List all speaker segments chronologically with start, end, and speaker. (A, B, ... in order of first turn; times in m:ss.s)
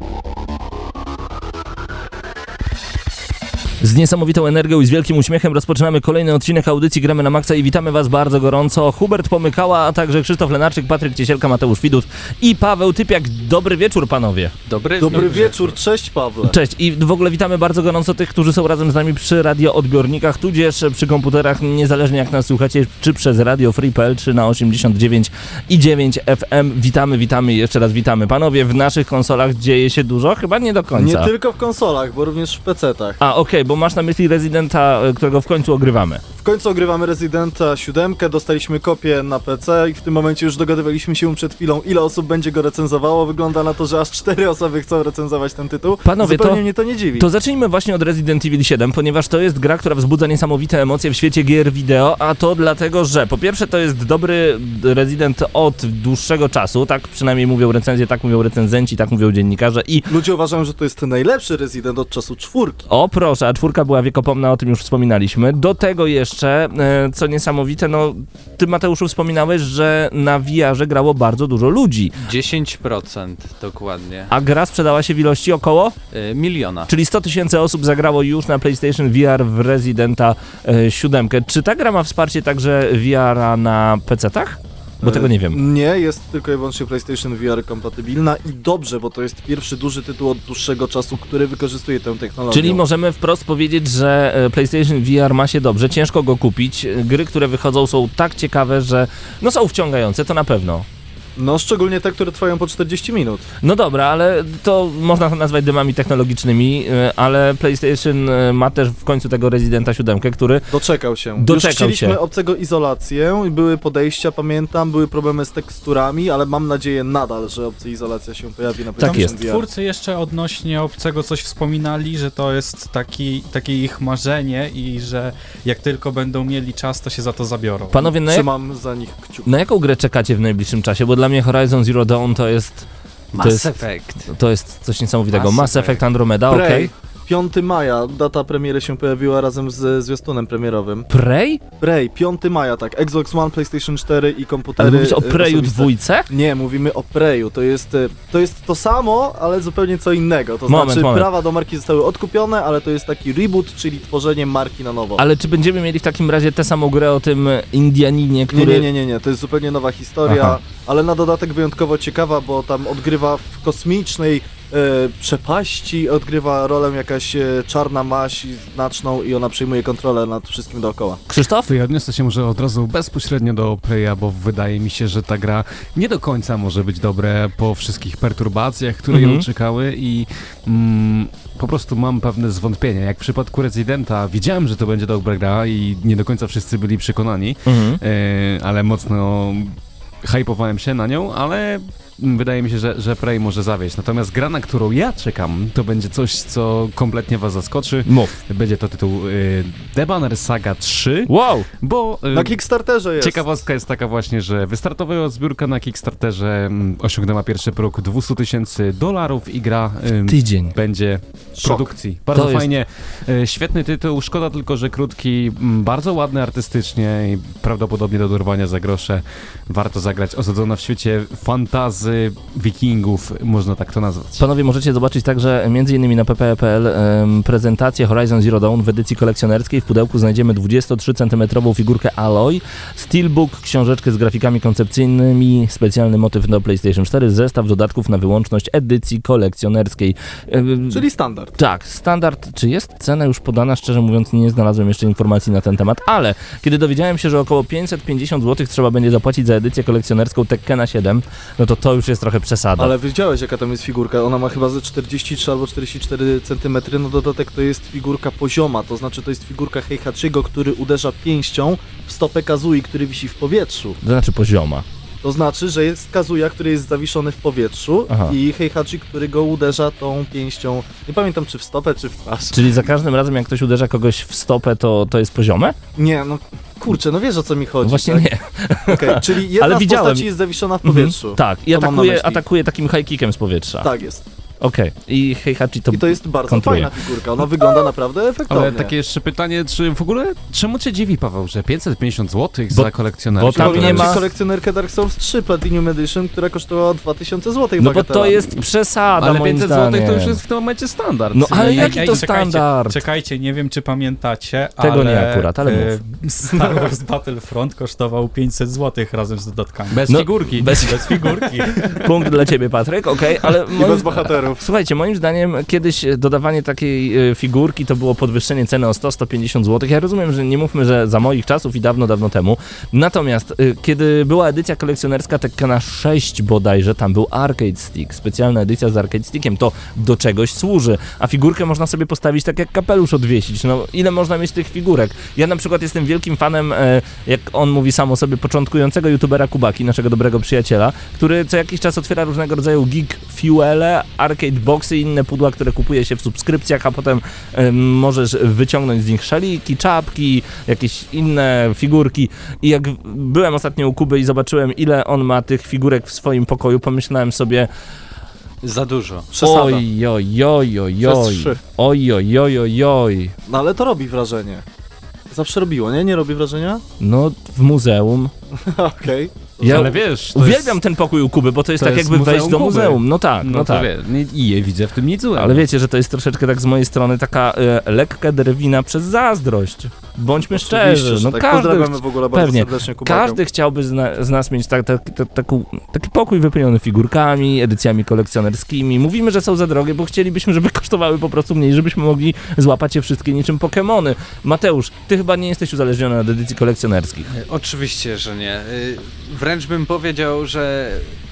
0:03.8-0:14.5 A
0:14.7-0:15.7 B
0:15.0-0:16.6 C
0:16.4-0:31.3 A
0:31.0-0:33.2 C
0:33.2-0:36.2 A
0:36.4-0:47.3 C
0:46.0-0:46.6 A
0:47.2-1:00.1 A
1:00.1-1:02.8 C
1:02.9-1:12.2 A
1:12.2-1:14.3 B
1:14.3-1:16.0 A
1:16.1-1:16.9 B
1:16.9-1:25.6 A
1:25.0-1:32.8 C
1:32.5-1:40.8 A
1:41.4-1:43.4 C
1:43.6-1:50.7 A
1:50.7-1:59.6 C
1:51.4-1:52.2 A
1:59.0-1:59.4 A
1:59.0-2:08.1 D
2:07.9-2:08.5 A
2:08.2-2:09.5 C
2:09.4-2:12.9 A
2:13.3-2:14.3 B
2:13.4-2:16.9 A
2:15.3-2:16.0 B
2:16.5-2:21.1 C
2:21.1-2:21.6 A
2:21.8-2:35.2 C
2:24.8-2:26.3 A
2:30.7-2:31.3 A
2:35.2-2:38.9 A
2:38.5-2:51.2 C
2:40.3-2:40.6 A
2:51.3-2:51.7 A
2:51.6-3:22.6 E
2:59.1-2:59.5 A
3:07.6-3:08.0 A
3:18.0-3:18.3 A
3:21.3-3:21.7 A
3:22.3-3:23.4 C
3:23.2-3:44.4 E
3:30.3-3:30.8 A
3:31.6-3:31.9 C
3:32.3-3:32.7 A
3:44.4-4:01.0 A
4:00.9-4:01.6 C
4:01.6-4:12.9 A
4:12.8-4:24.0 C
4:24.0-4:24.8 A
4:25.2-4:32.7 C
4:28.1-4:28.4 A
4:32.5-4:35.8 A
4:35.9-4:38.2 C
4:37.8-4:40.3 A
4:38.9-4:42.4 C
4:40.8-4:43.9 A
4:43.8-4:44.2 C
4:44.6-4:46.9 A
4:45.9-4:48.9 C
4:48.5-4:54.2 E
4:52.7-4:54.2 A
4:53.5-4:58.5 C
4:57.8-5:00.4 A
4:59.2-5:02.3 E
5:01.3-5:03.0 A
5:01.5-5:10.0 D
5:04.8-5:06.0 A
5:09.9-5:12.3 E
5:10.1-5:11.4 A
5:10.8-5:11.8 D
5:11.9-5:57.7 A
5:13.7-5:14.6 C
5:58.6-5:59.3 B
5:59.3-5:59.8 C
5:59.4-6:03.4 A
6:01.0-6:01.6 C
6:03.4-6:04.6 C
6:05.3-6:06.8 C
6:07.0-6:08.3 A
6:08.6-6:10.6 C
6:09.6-6:10.7 E
6:09.6-6:13.9 A
6:11.8-6:15.6 E
6:15.4-6:37.3 A
6:20.5-6:23.4 C
6:37.3-6:41.1 B